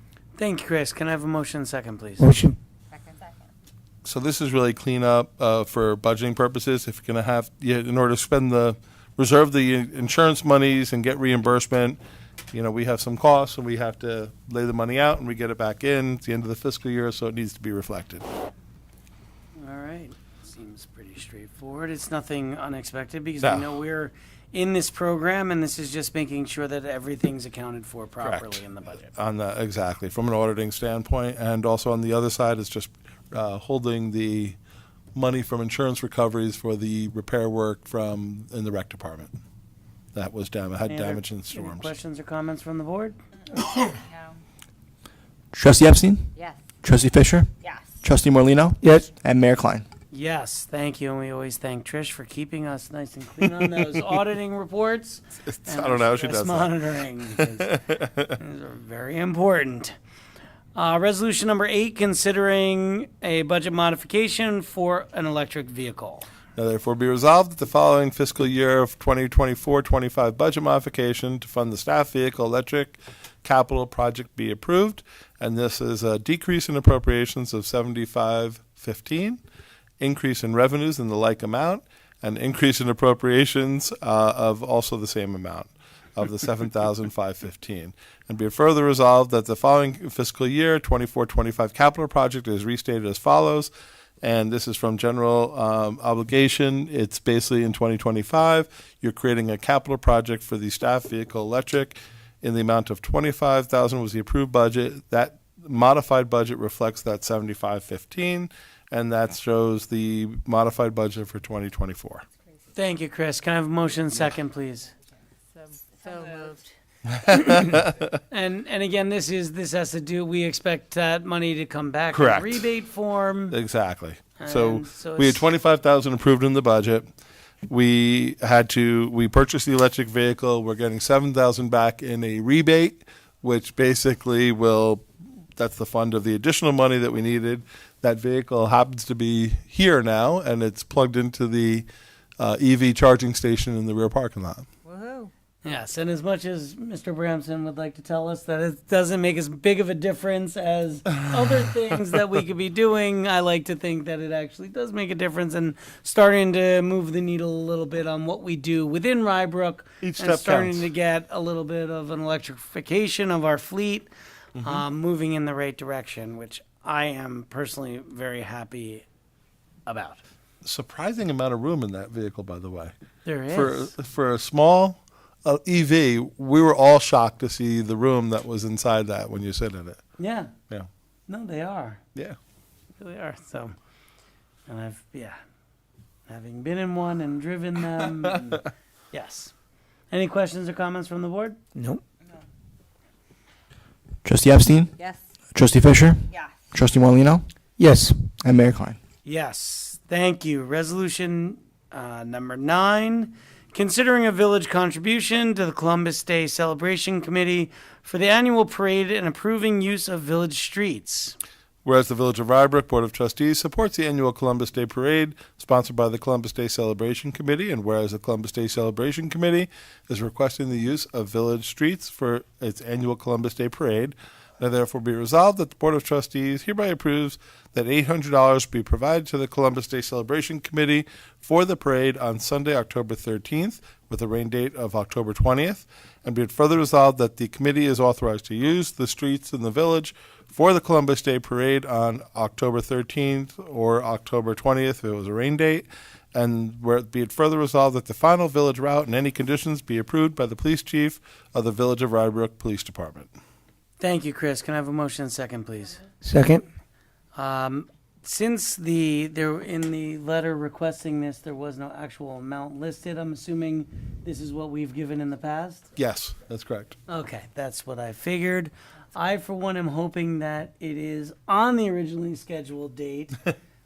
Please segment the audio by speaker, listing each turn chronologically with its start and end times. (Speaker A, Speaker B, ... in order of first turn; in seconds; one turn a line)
Speaker A: 0.4-2.3
Speaker B: 2.2-2.6
Speaker C: 2.9-3.4
Speaker D: 4.0-12.0
Speaker D: 12.5-18.2
Speaker A: 19.6-29.1
Speaker D: 23.4-23.7
Speaker D: 28.2-34.6
Speaker D: 35.1-39.3
Speaker D: 40.1-41.9
Speaker A: 40.9-43.2
Speaker E: 45.5-46.3
Speaker E: 46.8-49.8
Speaker B: 48.8-49.1
Speaker A: 50.1-60.0
Speaker D: 55.4-56.8
Speaker D: 57.3-58.3
Speaker A: 60.8-66.3
Speaker D: 66.6-79.4
Speaker D: 80.0-93.7
Speaker D: 94.2-112.2
Speaker A: 112.8-114.9
Speaker C: 115.6-116.7
Speaker D: 117.1-118.1
Speaker A: 117.3-123.5
Speaker D: 122.1-122.6
Speaker D: 123.5-127.1
Speaker A: 124.4-125.5
Speaker D: 127.7-141.9
Speaker D: 142.4-144.7
Speaker C: 144.8-145.3
Speaker A: 145.6-169.1
Speaker D: 160.0-160.9
Speaker D: 164.6-164.8
Speaker A: 169.9-170.2
Speaker D: 170.6-172.9
Speaker A: 173.2-173.9
Speaker D: 173.5-180.0
Speaker A: 180.2-180.5
Speaker A: 181.3-182.0
Speaker A: 183.0-183.8
Speaker A: 184.7-185.4
Speaker A: 186.3-189.5
Speaker A: 190.1-191.6
Speaker B: 191.8-192.0
Speaker E: 194.2-194.9
Speaker E: 195.5-197.5
Speaker B: 197.8-198.3
Speaker E: 198.4-199.0
Speaker A: 199.2-211.4
Speaker D: 211.8-253.3
Speaker A: 254.0-256.1
Speaker B: 256.2-256.6
Speaker A: 257.4-265.9
Speaker D: 266.0-267.0
Speaker A: 267.1-273.5